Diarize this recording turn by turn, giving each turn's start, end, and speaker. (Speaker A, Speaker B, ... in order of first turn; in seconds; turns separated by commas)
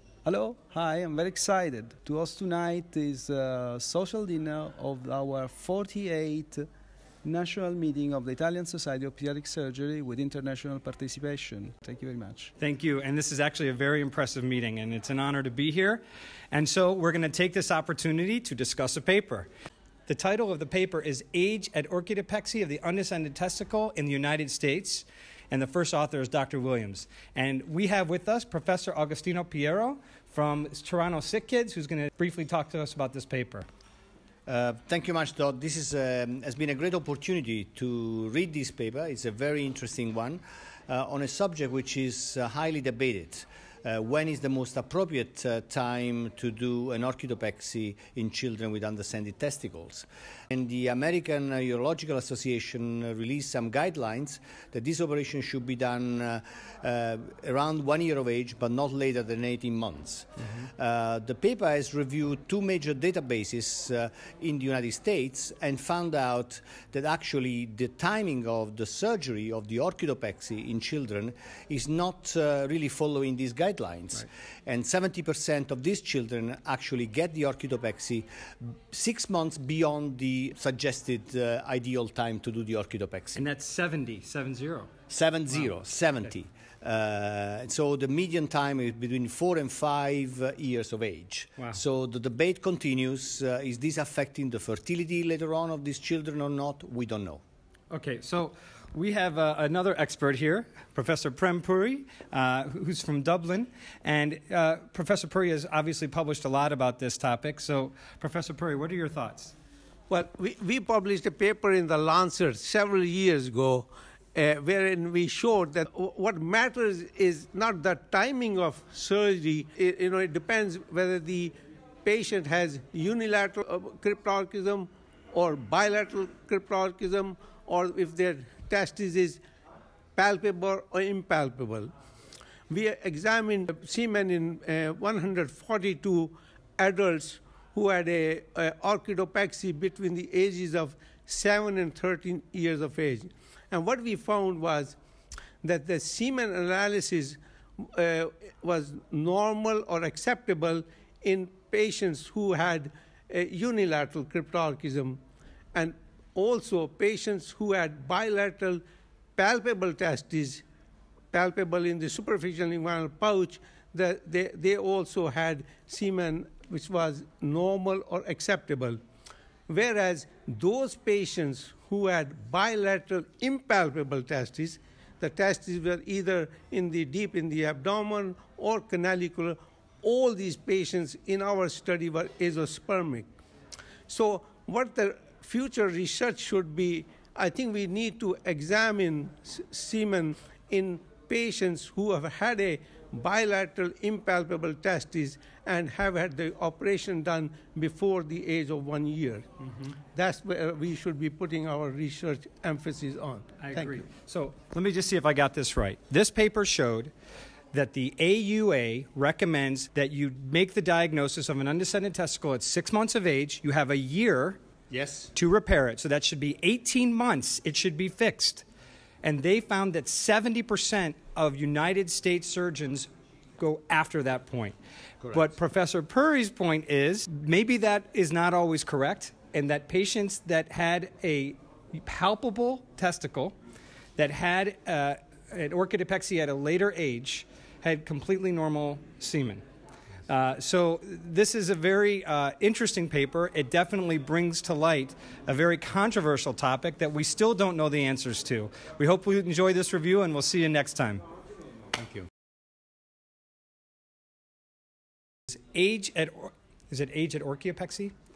Speaker A: 0.2-6.7, Speaker A: 7.2-12.5, Speaker B: 12.6-19.5, Speaker B: 20.1-33.7, Speaker C: 34.5-78.3, Speaker C: 78.9-83.4, Speaker B: 83.4-84.9, Speaker C: 85.1-97.4, Speaker B: 97.9-109.5, Speaker D: 110.1-129.4, Speaker D: 130.2-131.9, Speaker D: 132.7-145.0, Speaker D: 145.6-155.2, Speaker D: 155.7-158.8, Speaker D: 159.4-160.6, Speaker D: 161.3-169.0, Speaker D: 169.7-183.3, Speaker D: 184.1-199.5, Speaker D: 200.1-204.1, Speaker B: 203.6-207.1, Speaker B: 207.7-214.6, Speaker C: 214.9-215.3, Speaker B: 215.3-218.7, Speaker B: 219.2-223.1, Speaker B: 223.6-224.8, Speaker C: 225.2-225.5, Speaker B: 225.3-233.6, Speaker B: 234.2-239.6, Speaker B: 240.3-251.2, Speaker B: 255.6-258.1